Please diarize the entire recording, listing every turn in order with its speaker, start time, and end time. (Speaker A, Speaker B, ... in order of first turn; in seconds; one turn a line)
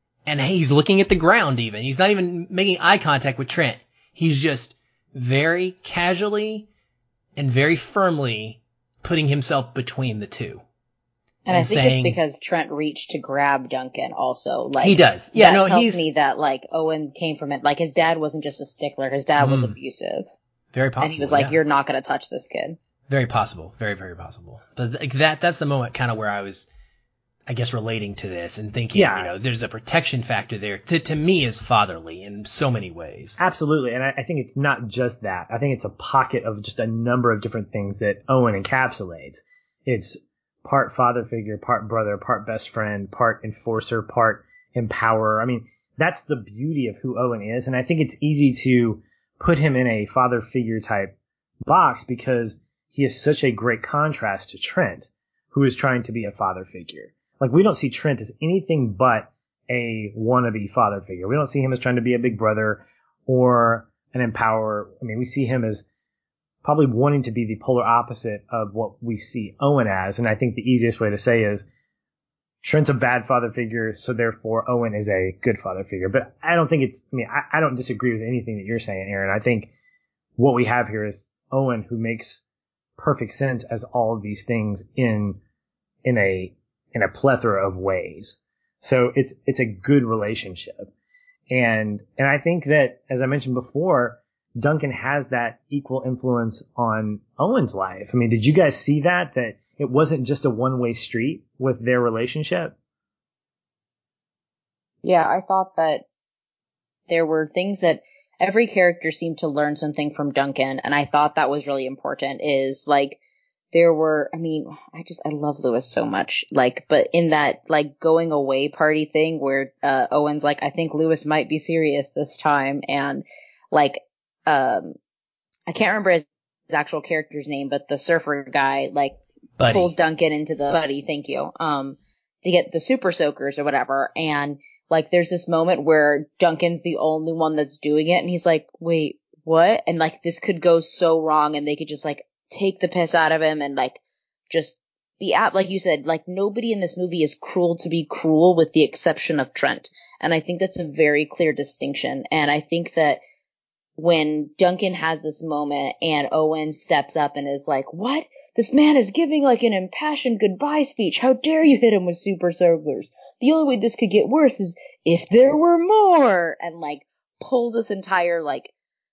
Speaker A: 0.2-6.7
Speaker A: 7.3-10.6
Speaker B: 11.4-20.3
Speaker A: 11.5-12.2
Speaker A: 14.8-16.0
Speaker A: 19.4-19.8
Speaker A: 20.7-21.6
Speaker B: 21.0-22.8
Speaker A: 23.1-26.7
Speaker A: 27.5-33.4
Speaker C: 28.9-29.3
Speaker C: 33.4-51.1
Speaker C: 51.7-65.8
Speaker C: 66.6-71.7
Speaker C: 72.6-79.7
Speaker C: 80.4-82.4
Speaker C: 83.0-85.4
Speaker C: 86.0-90.9
Speaker C: 91.5-102.7
Speaker B: 105.0-106.0
Speaker B: 107.1-113.2
Speaker B: 113.7-124.9
Speaker B: 125.7-153.2
Speaker A: 129.6-129.9
Speaker B: 154.0-168.7